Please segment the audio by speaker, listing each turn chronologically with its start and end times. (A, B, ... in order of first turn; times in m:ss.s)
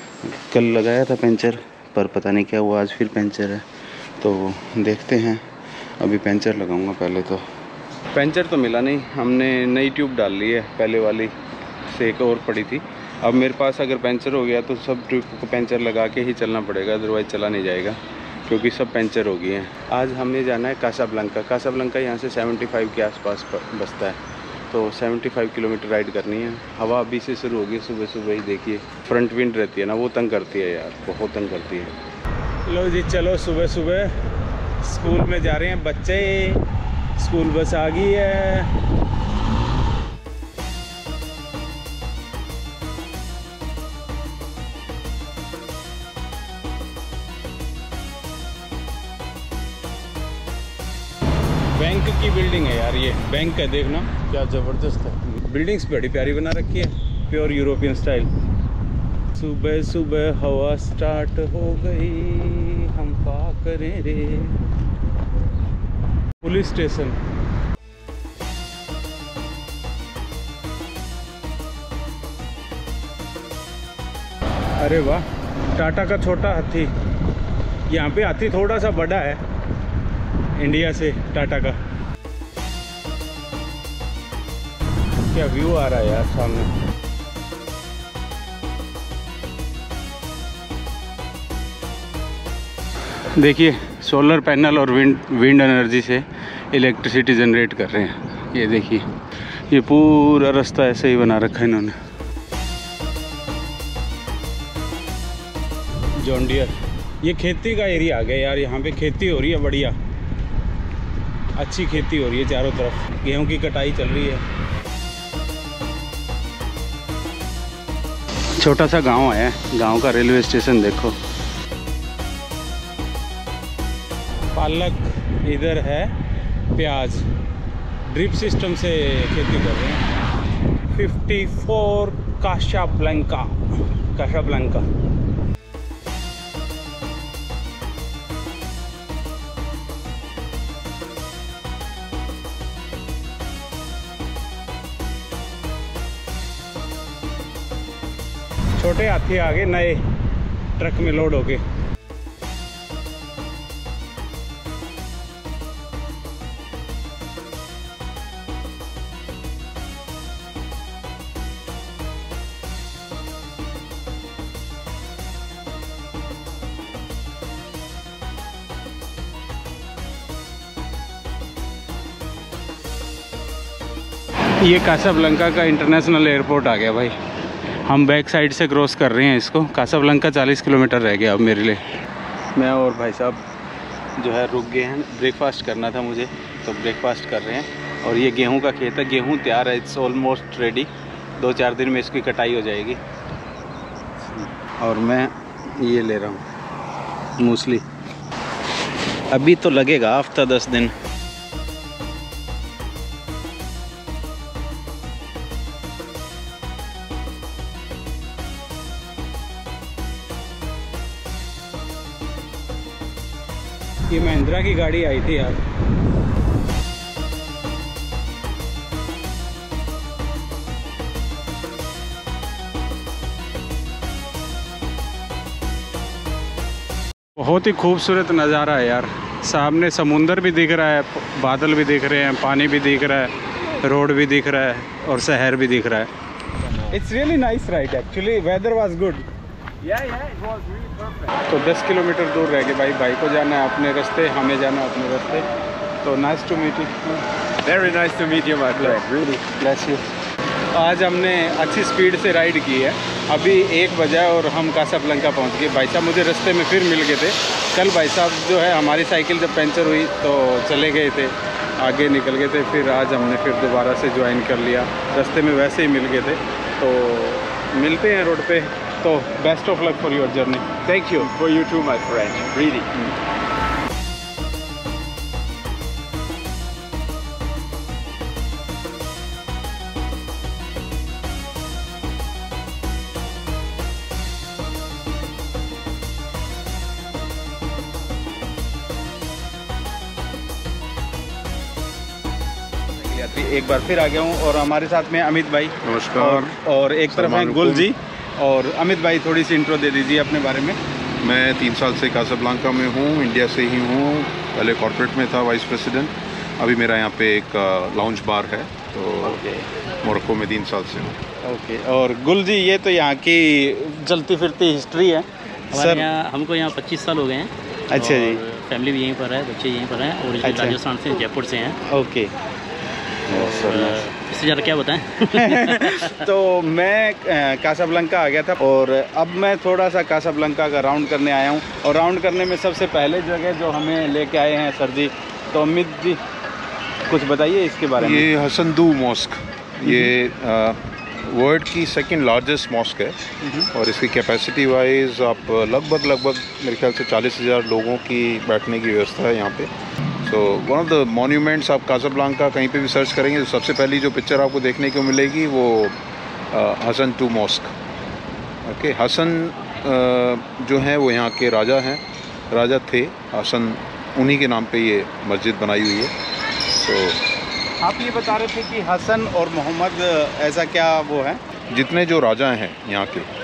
0:00.2-0:03.6 A
0:04.2-0:07.5 A
0:08.1-0:11.3 A
0:11.9-0:24.2 A
0:24.7-0:31.9 A
0:32.7-0:34.1 A
0:34.8-0:36.6 A
0:37.2-0:38.8 A
0:51.8-0:58.3 A
0:59.3-1:04.7 A
1:06.4-1:07.2 A
1:14.8-1:15.2 A
1:15.8-1:16.9 A
1:17.9-1:19.4 A
1:20.6-1:21.8 A
1:25.3-1:26.7 A
1:33.3-1:39.1 A
1:39.7-1:42.0 A
1:46.2-1:50.0 A
1:51.6-1:54.4 A
1:58.6-2:01.2 A
2:04.5-2:06.1 A
2:06.7-2:07.2 A
2:08.1-2:10.0 A
2:10.9-2:14.8 A
2:28.8-2:30.0 A
2:30.8-2:31.6 A
2:54.6-2:57.2 A
2:57.8-3:01.8 A
3:02.6-3:03.4 A
3:04.2-3:13.0 A
3:14.2-3:16.4 A
3:17.4-3:17.8 A
3:19.3-3:20.9 A
3:34.1-3:35.6 A
3:47.4-3:56.1 A
3:56.8-3:59.2 A
3:59.8-4:05.5 A
4:06.0-4:10.1 A
4:07.6-4:09.3 B
4:10.7-4:31.9 A
4:31.2-4:32.9 B
4:32.5-4:32.8 A
4:53.0-5:00.8 A
4:55.8-4:56.6 C
4:57.1-4:57.9 C
5:01.2-5:09.4 C
5:09.2-5:09.7 A
5:10.0-5:11.2 C
5:11.4-5:16.1 A
5:15.7-5:21.8 D
5:17.9-5:18.4 A
5:20.4-5:20.8 A
5:21.9-5:22.3 A
5:23.3-5:24.1 A
5:23.3-5:26.2 D
5:25.3-5:36.2 A
5:37.1-5:38.3 A
5:38.0-5:43.2 C
5:39.9-5:40.1 A
5:43.4-5:43.7 A
5:43.7-5:49.7 C
5:50.2-5:56.0 C
5:56.5-5:57.7 C
5:58.6-6:06.1 C
6:06.7-6:07.2 C
6:07.8-6:11.4 A
6:11.7-6:13.3 C